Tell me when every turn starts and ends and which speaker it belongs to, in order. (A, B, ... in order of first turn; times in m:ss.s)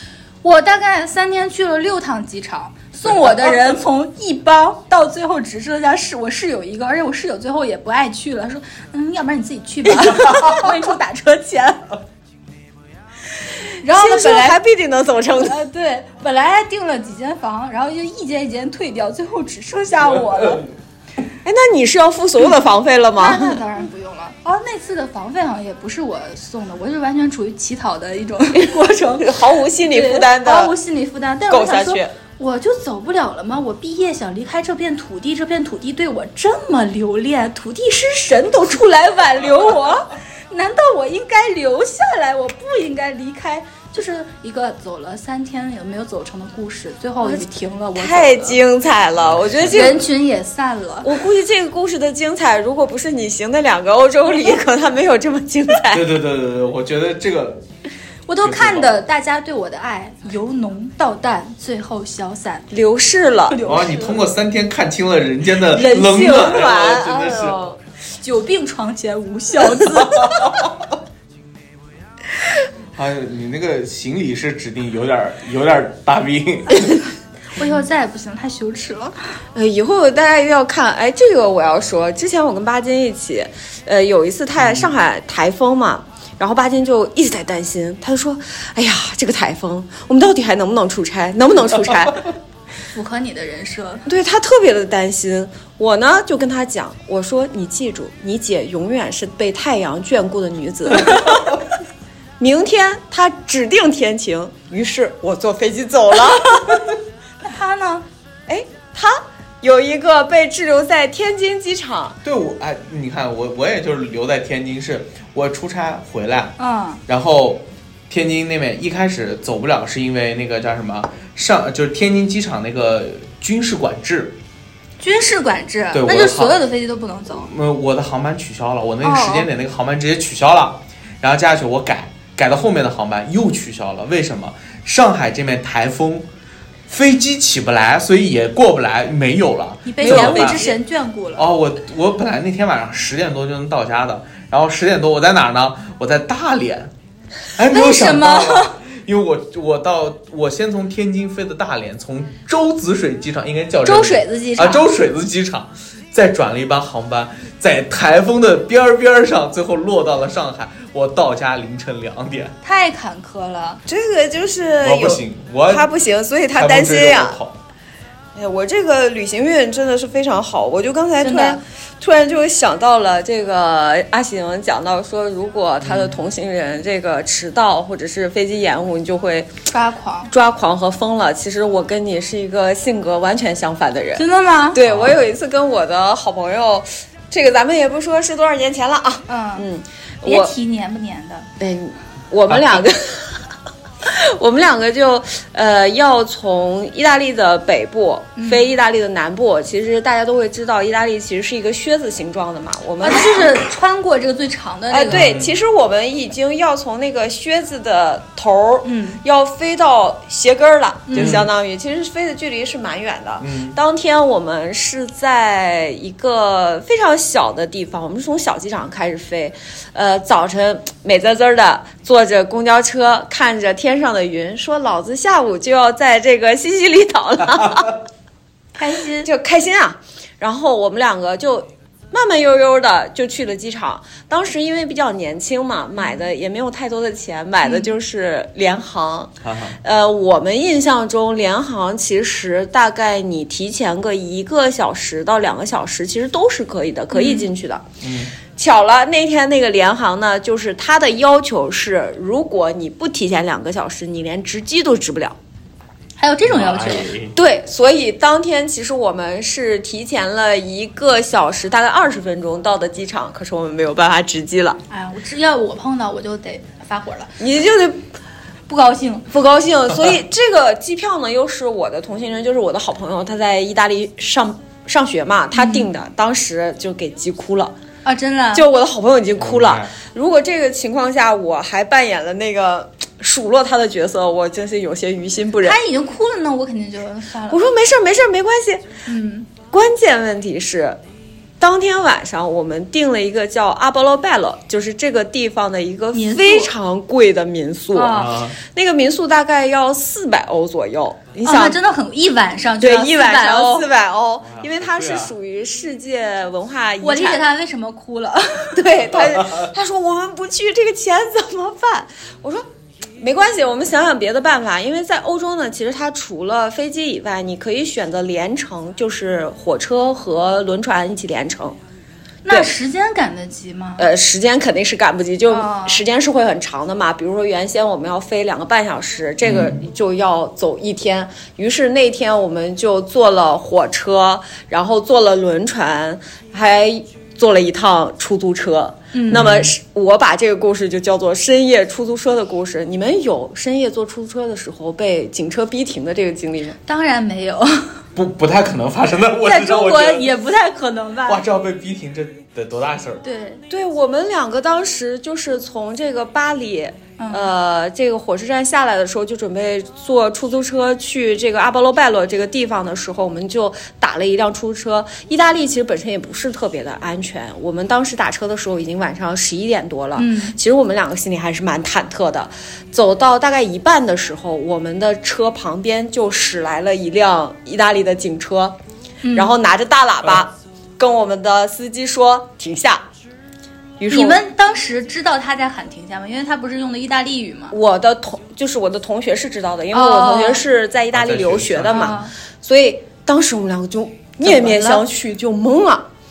0:00.4-0:11.9 A
0:10.2-0:10.5 B
0:13.8-0:14.6 A
0:13.8-0:15.6 C
0:15.4-0:20.6 A
0:21.4-0:23.6 C
0:23.2-0:48.6 A
0:29.2-0:30.7 C
0:31.5-0:32.1 C
0:47.2-0:50.0 C
0:49.2-0:50.0 B
0:49.7-0:51.1 A
0:51.0-0:56.1 C
0:55.9-0:57.6 B
0:58.3-1:02.7 A
0:58.4-0:58.9 B
1:02.7-1:03.6 C
1:03.5-1:04.2 A
1:03.6-1:07.6 B
1:05.7-1:07.8 C
1:08.2-1:10.3 A
1:09.8-1:10.7 B
1:13.0-1:16.8 B
1:17.6-1:19.2 A
1:19.5-1:32.3 C
1:24.6-1:24.9 B
1:32.9-1:34.0 A
1:34.0-1:41.6 C
1:42.4-1:46.8 C
1:46.5-1:48.0 A
1:48.5-1:52.2 C
1:52.2-1:56.5 B
1:56.6-1:57.0 A
1:57.1-2:04.4 B
2:05.0-2:07.5 A
2:05.9-2:06.6 B
2:07.4-2:16.2 B
2:09.0-2:09.5 A
2:16.9-2:20.7 B
2:19.8-2:21.5 A
2:20.0-2:20.8 C
2:21.4-2:26.9 B
2:27.5-2:42.5 B
2:27.7-2:28.8 A
2:33.8-2:34.9 A
2:42.6-2:43.8 A
2:43.8-2:47.4 C
2:44.8-2:45.9 B
2:46.6-2:47.6 B
2:48.3-2:59.5 C
2:51.2-2:51.6 A
2:55.8-2:56.1 B
2:59.7-3:00.3 A
3:00.3-3:10.5 C
3:04.2-3:04.8 A
3:04.8-3:05.2 B
3:09.3-3:09.6 A
3:10.2-3:11.5 A
3:11.6-3:13.4 C
3:12.5-3:12.8 B
3:14.0-3:23.6 C
3:18.4-3:18.6 A
3:23.0-3:25.2 A
3:24.9-3:48.0 C
3:25.1-3:25.5 B
3:28.8-3:29.2 A
3:31.1-3:31.4 A
3:31.2-3:31.5 B
3:33.4-3:33.8 B
3:48.8-3:49.3 A
3:49.2-3:59.3 C
3:57.6-3:57.9 A
3:59.4-3:59.8 B
3:59.8-4:07.8 C
4:07.1-4:07.5 A
4:08.0-4:08.3 B
4:08.6-4:15.4 C
4:16.2-4:17.1 A
4:16.4-4:17.3 B
4:17.3-4:24.8 C
4:24.9-4:27.4 A
4:27.4-4:28.0 C
4:28.7-4:29.3 A
4:29.3-4:37.7 C
4:35.5-4:35.9 A
4:38.0-4:38.6 A
4:38.5-4:45.8 C
4:39.4-4:39.9 B
4:45.6-4:47.7 A
4:47.5-4:48.8 C
4:49.0-4:49.5 A
4:49.7-4:51.0 C
4:51.6-5:01.8 C
4:56.1-4:56.7 A
4:57.9-4:58.3 A
4:58.1-4:58.6 B
5:01.4-5:03.9 A
5:02.8-5:07.4 C
5:04.4-5:05.3 B
5:07.0-5:08.8 A
5:08.8-5:12.6 C
5:09.1-5:09.7 B
5:13.2-5:21.8 C
5:22.4-5:24.0 A
5:24.0-5:46.8 C
5:25.5-5:26.0 A
5:29.4-5:29.8 B
5:39.1-5:39.4 A
5:39.3-5:39.7 B
5:46.8-5:48.0 A
5:48.1-5:50.3 B
5:49.4-5:51.4 A
5:51.3-5:53.2 B
5:53.2-5:53.6 A
5:53.7-6:18.8 C
5:57.2-5:57.5 A
6:10.2-6:10.5 A
6:19.2-6:19.5 A
6:19.3-6:23.0 C
6:24.0-6:24.4 C
6:24.1-6:27.7 A
6:27.7-6:36.0 C
6:29.9-6:30.6 A
6:31.1-6:32.1 B
6:31.9-6:32.3 A
6:34.4-6:35.0 A